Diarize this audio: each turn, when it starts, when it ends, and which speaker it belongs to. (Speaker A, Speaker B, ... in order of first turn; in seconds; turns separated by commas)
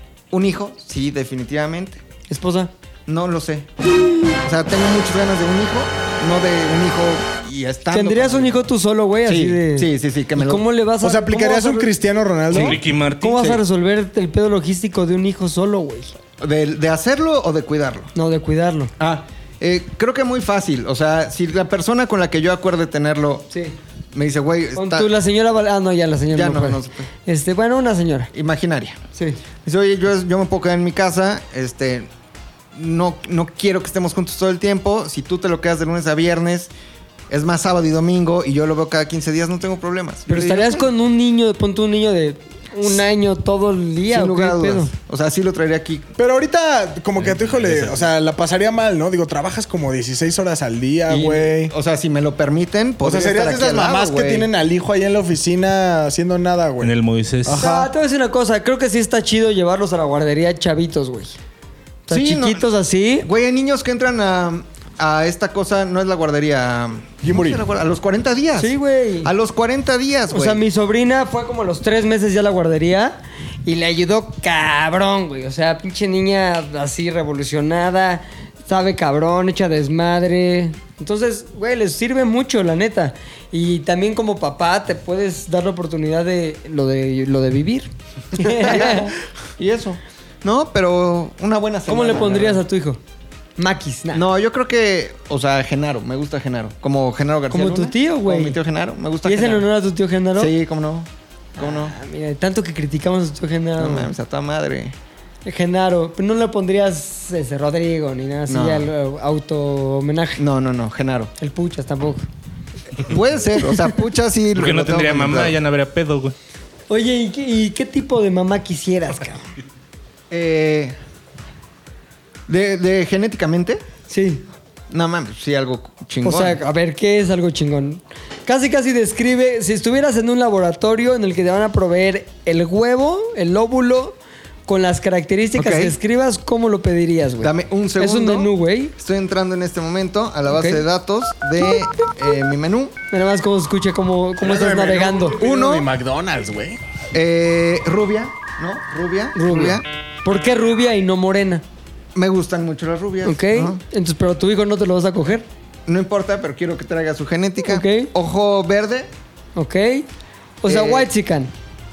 Speaker A: 0.3-2.0, Speaker B: 2.3-2.7, Speaker A: 3.1-3.7, Speaker A: 4.4-8.7, Speaker B: 7.9-11.9, Speaker A: 9.3-10.7, Speaker C: 11.0-12.8, Speaker D: 12.5-13.5, Speaker B: 12.5-16.1, Speaker A: 13.4-13.6, Speaker A: 16.4-18.1, Speaker B: 18.1-18.9, Speaker A: 19.0-23.5, Speaker B: 23.5-23.8, Speaker A: 24.1-25.1, Speaker B: 24.8-28.3, Speaker A: 26.3-27.1, Speaker A: 28.3-29.0, Speaker B: 29.1-29.4, Speaker A: 29.6-32.1, Speaker A: 32.8-36.7, Speaker A: 37.3-40.9, Speaker B: 40.3-44.9, Speaker A: 44.1-46.1, Speaker C: 46.2-51.7, Speaker D: 47.2-48.1, Speaker A: 51.1-54.5, Speaker C: 53.0-57.9, Speaker D: 56.8-57.6, Speaker B: 57.5-61.4, Speaker B: 62.1-63.3, Speaker A: 62.1-62.7, Speaker A: 63.2-70.6, Speaker C: 67.2-67.7, Speaker B: 68.6-69.3, Speaker B: 70.3-89.1, Speaker A: 88.4-92.6, Speaker B: 91.9-93.0, Speaker B: 93.6-94.2, Speaker A: 94.1-99.7, Speaker B: 97.5-98.6, Speaker B: 99.2-100.5, Speaker A: 100.4-102.0, Speaker B: 101.6-104.1, Speaker A: 103.8-105.0, Speaker B: 105.5-110.4, Speaker A: 108.5-108.9, Speaker A: 110.4-111.3, Speaker B: 111.4-112.2, Speaker A: 113.0-115.6, Speaker D: 114.5-116.3, Speaker B: 116.9-119.5, Speaker A: 120.3-121.0, Speaker A: 122.5-123.8, Speaker B: 124.1-124.5, Speaker A: 124.9-126.6, Speaker B: 126.2-138.9, Speaker A: 135.6-136.0, Speaker A: 137.4-142.9, Speaker B: 140.5-140.8, Speaker B: 143.1-145.4, Speaker C: 144.4-146.8, Speaker A: 145.4-145.9, Speaker A: 147.1-149.8, Speaker B: 149.3-151.6, Speaker A: 152.2-153.8, Speaker B: 153.2-155.5, Speaker A: 155.9-159.1, Speaker B: 157.7-158.1, Speaker B: 159.6-160.1, Speaker B: 160.6-161.5, Speaker A: 160.7-161.1